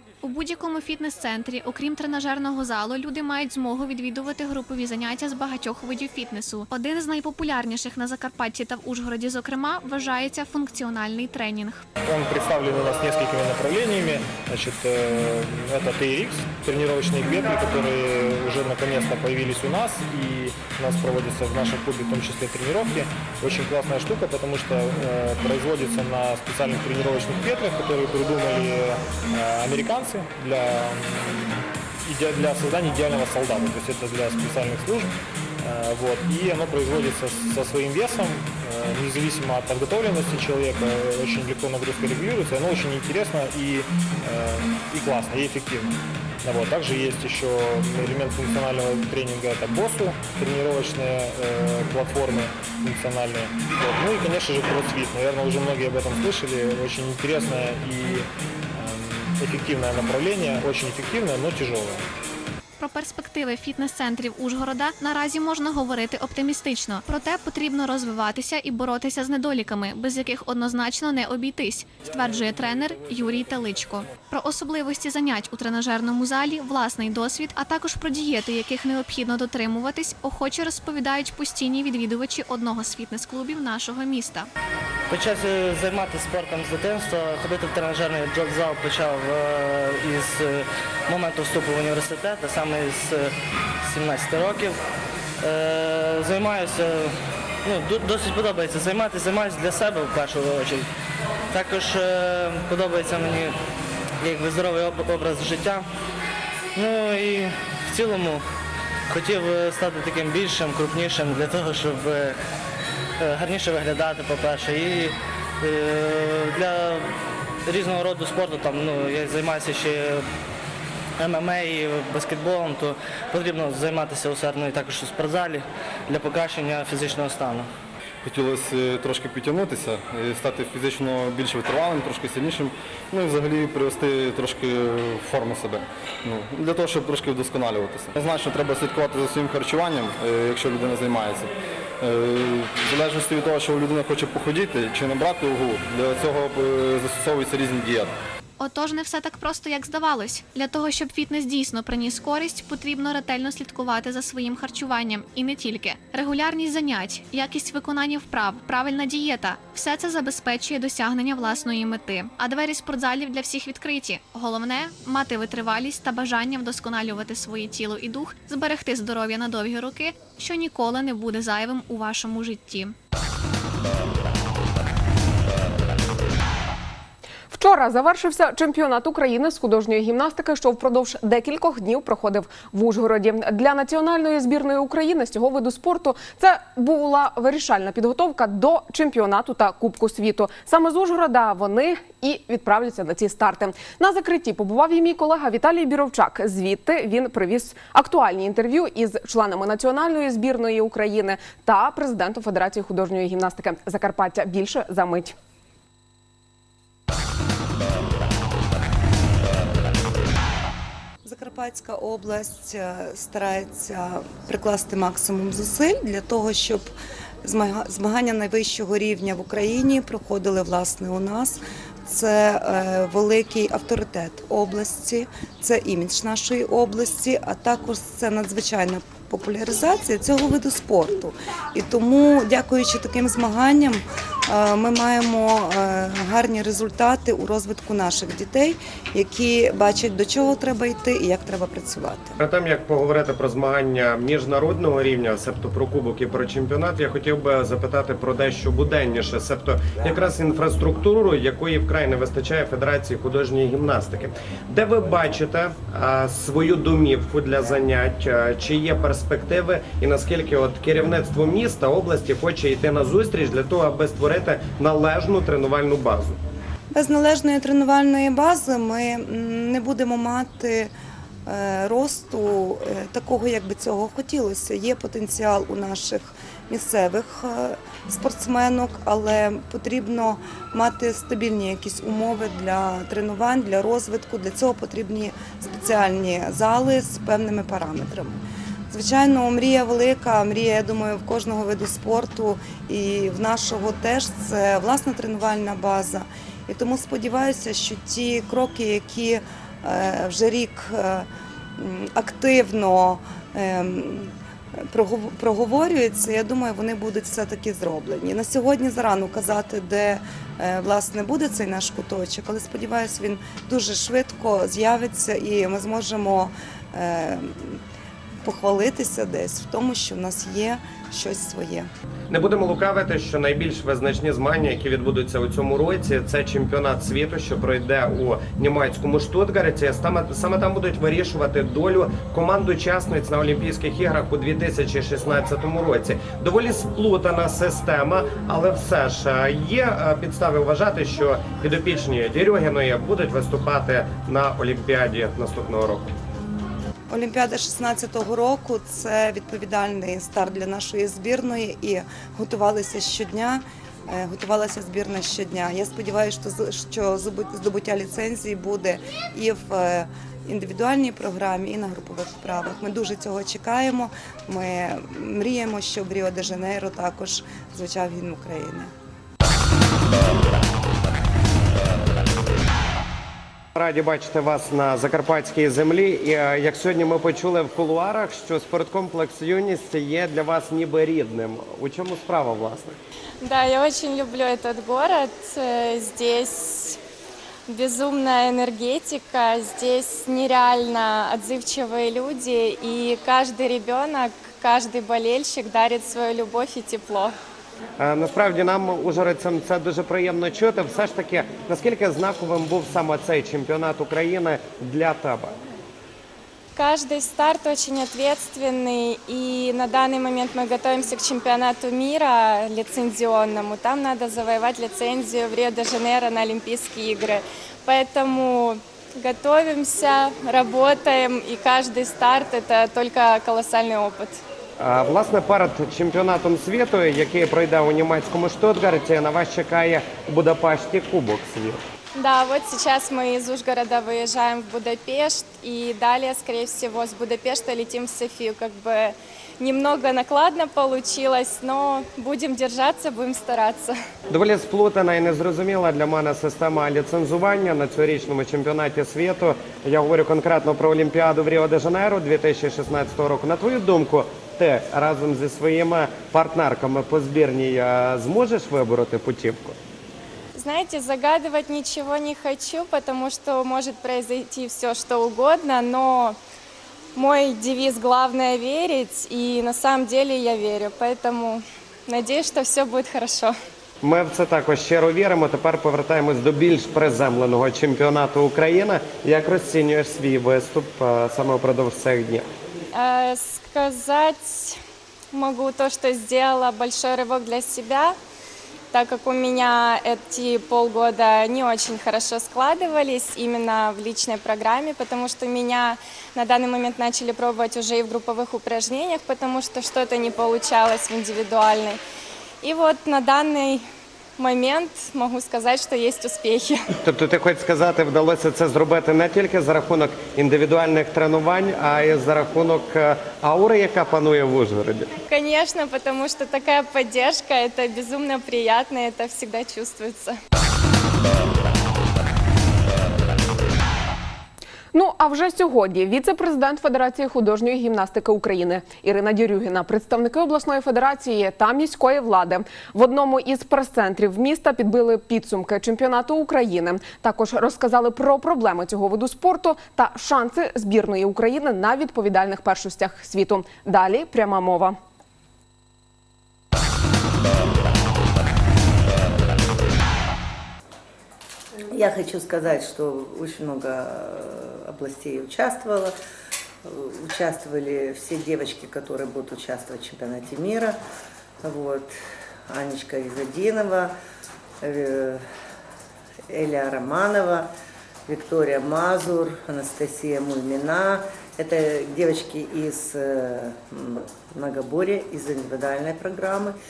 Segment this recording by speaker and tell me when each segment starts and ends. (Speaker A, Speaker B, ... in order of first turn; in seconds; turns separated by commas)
Speaker A: 0.2-11.9, Speaker B: 12.0-62.1, Speaker A: 62.8-84.5, Speaker C: 85.1-94.8, Speaker C: 95.4-100.9, Speaker C: 101.5-103.6, Speaker C: 104.2-105.9, Speaker C: 106.8-108.5, Speaker C: 109.1-112.4, Speaker C: 113.2-120.3, Speaker C: 121.2-127.7, Speaker D: 128.2-148.1, Speaker A: 148.6-172.9, Speaker E: 177.5-205.3, Speaker F: 211.2-216.9, Speaker F: 217.4-242.4, Speaker G: 242.4-266.4, Speaker F: 266.9-270.9, Speaker F: 271.5-317.8, Speaker F: 318.4-321.9, Speaker G: 322.3-346.1, Speaker F: 347.1-368.9, Speaker G: 373.8-383.0, Speaker H: 383.4-387.0, Speaker H: 387.7-397.4, Speaker G: 398.0-405.6, Speaker H: 406.8-424.4, Speaker G: 424.8-431.8, Speaker H: 432.1-444.0, Speaker G: 444.3-459.8, Speaker H: 460.6-466.4, Speaker H: 467.1-473.6, Speaker G: 474.0-482.5, Speaker H: 482.9-484.8, Speaker H: 485.3-488.2, Speaker H: 488.9-502.0, Speaker H: 502.6-503.9, Speaker H: 504.4-506.9, Speaker G: 507.0-515.1, Speaker H: 515.3-520.4, Speaker E: 524.9-545.0, Speaker I: 551.9-556.2, Speaker I: 556.9-561.0, Speaker I: 561.6-564.1, Speaker I: 564.8-565.5, Speaker I: 566.5-567.7, Speaker I: 568.3-576.8